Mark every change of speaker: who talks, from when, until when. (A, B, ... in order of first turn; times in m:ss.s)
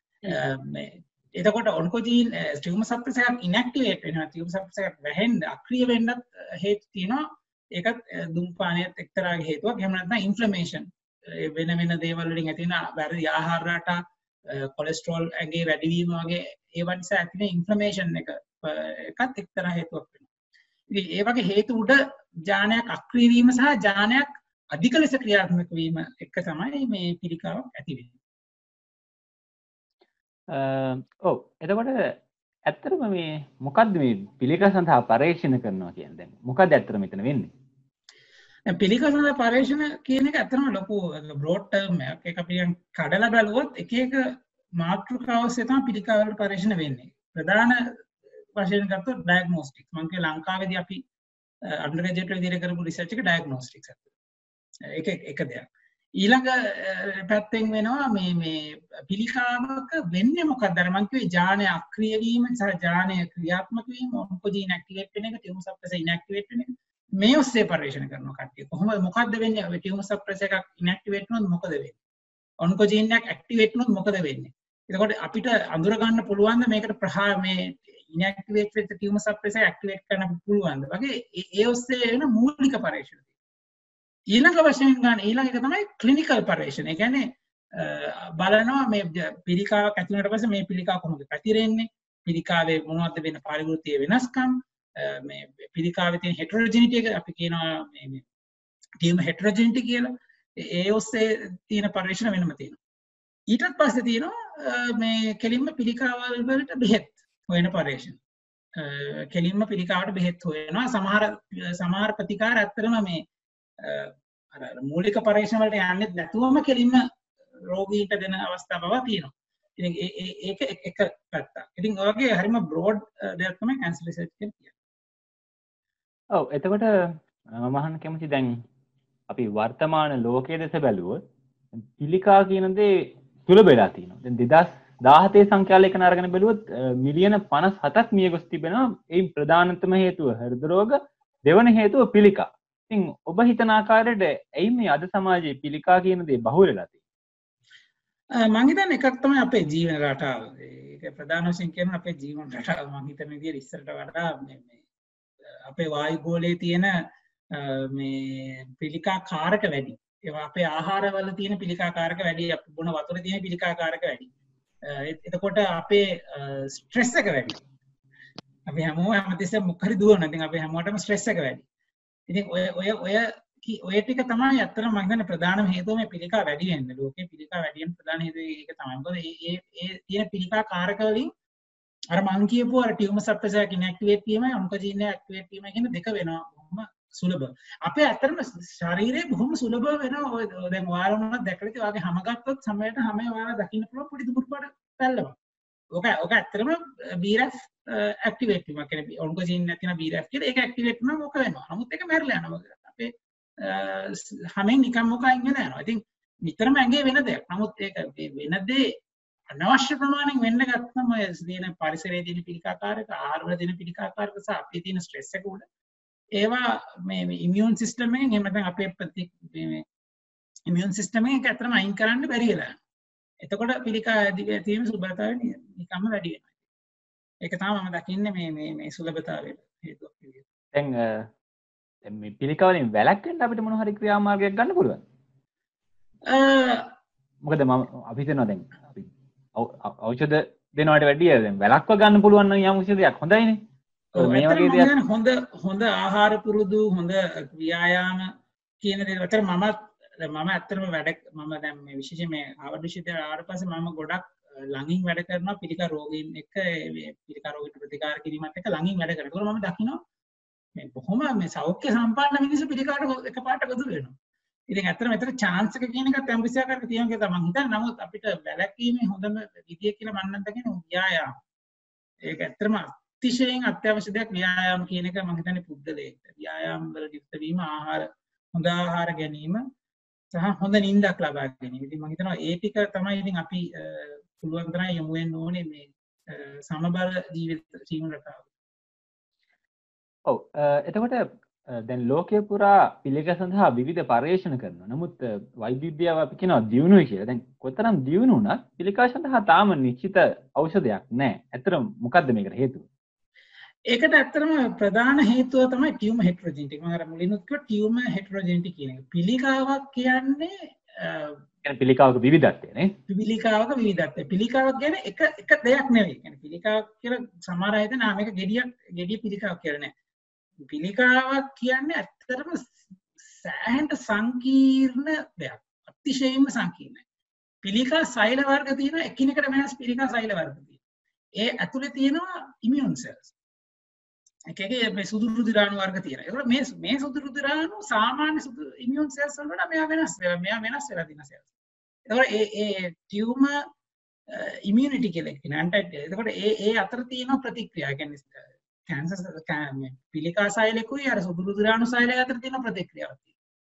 0:00.2-0:20.3 A
0:20.9-0:28.1 A
0:30.5-0:37.5 B
0:38.7-0:47.8 A
0:48.5-0:51.0 A
0:51.7-0:54.0 A
0:54.9-0:55.7 A
0:56.2-1:12.0 A
1:12.6-1:23.3 A
1:24.3-1:38.2 A
1:39.0-1:42.8 A
1:43.5-1:48.2 A
1:48.8-1:53.2 A
1:53.8-1:57.0 A
1:57.7-2:04.7 A
2:06.3-2:08.6 B
2:09.3-2:11.2 B
2:11.8-2:27.0 B
2:28.4-2:34.8 A
2:35.6-2:36.9 A
2:37.5-2:44.3 A
2:44.8-2:47.6 A
2:48.7-2:51.6 A
2:52.3-3:01.3 A
3:02.1-3:15.4 A
3:15.9-3:28.9 A
3:29.5-3:35.6 A
3:36.4-3:39.8 A
3:40.7-3:42.8 A
3:43.4-3:46.5 A
3:47.4-3:50.4 A
3:50.7-3:51.3 B
3:52.0-3:55.0 B
3:56.3-3:56.9 A
3:57.4-4:03.6 B
4:04.2-4:04.9 B
4:04.2-4:08.3 A
4:08.8-4:20.0 A
4:20.8-4:24.1 A
4:24.7-4:31.4 A
4:32.2-4:39.6 A
4:40.3-4:48.5 A
4:50.3-5:02.9 B
5:03.9-5:11.4 A
5:11.6-5:13.0 B
5:13.1-5:19.9 A
5:20.7-5:27.0 A
5:27.6-5:30.8 A
5:31.4-5:33.3 A
5:34.5-5:41.5 A
5:42.1-5:43.6 A
5:44.3-5:53.3 A